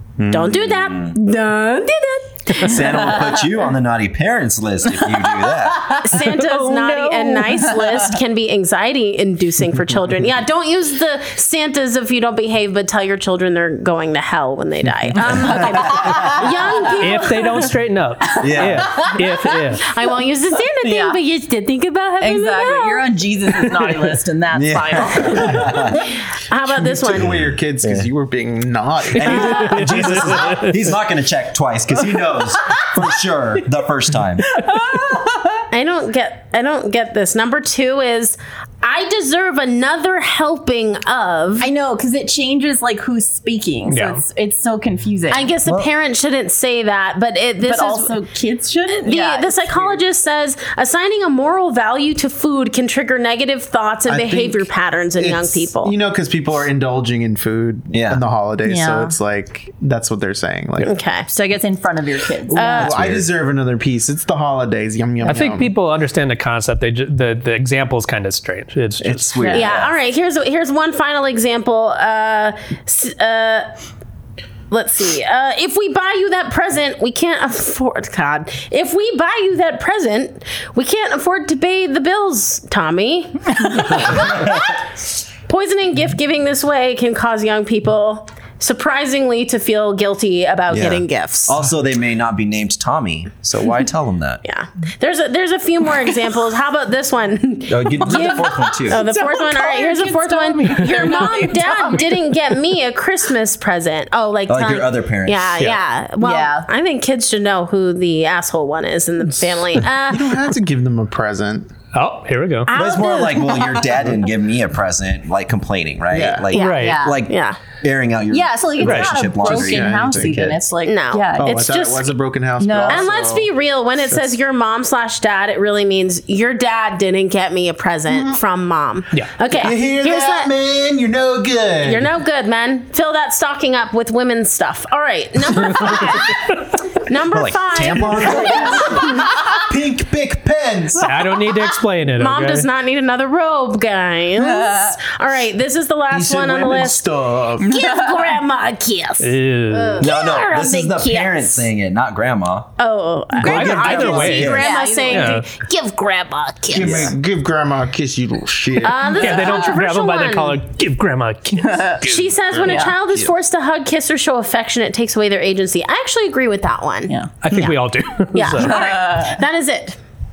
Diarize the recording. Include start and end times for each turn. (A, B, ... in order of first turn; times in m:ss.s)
0:00.2-0:01.2 A
0:00.3-0:02.9 B
0:02.6-0:06.0 A
0:05.5-0:08.1 C
0:06.0-0:17.7 B
0:15.2-0:16.1 A
0:15.2-0:16.9 C
0:17.0-0:19.8 D
0:18.4-0:19.1 A
0:19.0-0:19.2 C
0:19.8-0:23.1 B
0:20.8-0:21.2 C
0:22.2-0:26.0 C
0:24.5-0:26.0 A
0:25.9-0:27.3 B
0:26.7-0:30.5 E
0:27.1-0:28.1 A
0:29.1-0:34.6 A
0:29.4-0:30.6 D
0:34.6-0:35.6 C
0:35.7-0:41.7 B
0:41.6-0:45.5 C
0:43.9-0:44.2 D
0:45.3-0:48.1 B
0:45.6-0:45.9 A
0:47.6-0:50.0 C
0:48.9-0:55.9 B
0:54.1-1:00.9 E
0:57.9-0:58.2 A
0:58.6-0:59.2 C
1:00.8-1:01.3 B
1:01.3-1:02.9 C
1:02.5-1:05.7 E
1:02.5-1:02.9 B
1:02.8-1:03.3 A
1:05.2-1:09.6 D
1:09.0-1:10.0 A
1:09.4-1:09.6 C
1:09.5-1:13.7 B
1:14.7-1:24.8 B
1:25.5-1:31.6 B
1:30.7-1:34.4 A
1:34.4-1:50.3 B
1:37.7-1:39.0 A
1:38.0-1:42.3 C
1:44.5-1:45.7 A
1:46.2-1:46.7 C
1:50.1-1:51.7 E
1:51.9-1:52.7 D
1:52.7-1:53.8 C
1:52.7-2:00.7 A
1:56.1-1:56.5 E
1:56.5-1:57.6 B
1:56.6-1:57.1 D
1:56.8-1:57.2 C
1:58.3-2:01.6 C
1:58.8-1:59.1 D
1:59.4-2:00.5 E
2:00.8-2:02.1 B
2:01.4-2:03.5 E
2:02.6-2:03.1 C
2:02.9-2:10.5 B
2:09.5-2:12.1 E
2:11.8-2:19.4 B
2:17.3-2:19.0 A
2:18.5-2:21.3 E
2:21.0-2:22.7 D
2:22.2-2:27.0 B
2:24.4-2:25.0 C
2:26.1-2:27.7 E
2:27.6-2:28.4 C
2:27.6-2:31.7 B
2:29.2-2:30.1 D
2:30.0-2:32.7 A
2:32.8-2:37.1 B
2:33.4-2:34.7 A
2:33.4-2:35.4 D
2:33.9-2:35.4 C
2:36.7-2:39.4 E
2:36.8-2:37.1 A
2:38.8-2:40.6 B
2:39.2-2:42.3 D
2:39.4-2:39.6 C
2:41.6-2:42.0 C
2:42.0-2:47.7 B
2:42.6-2:43.3 E
2:42.6-2:43.0 C
2:47.4-2:48.8 D
2:48.3-2:50.0 B
2:48.6-2:49.4 C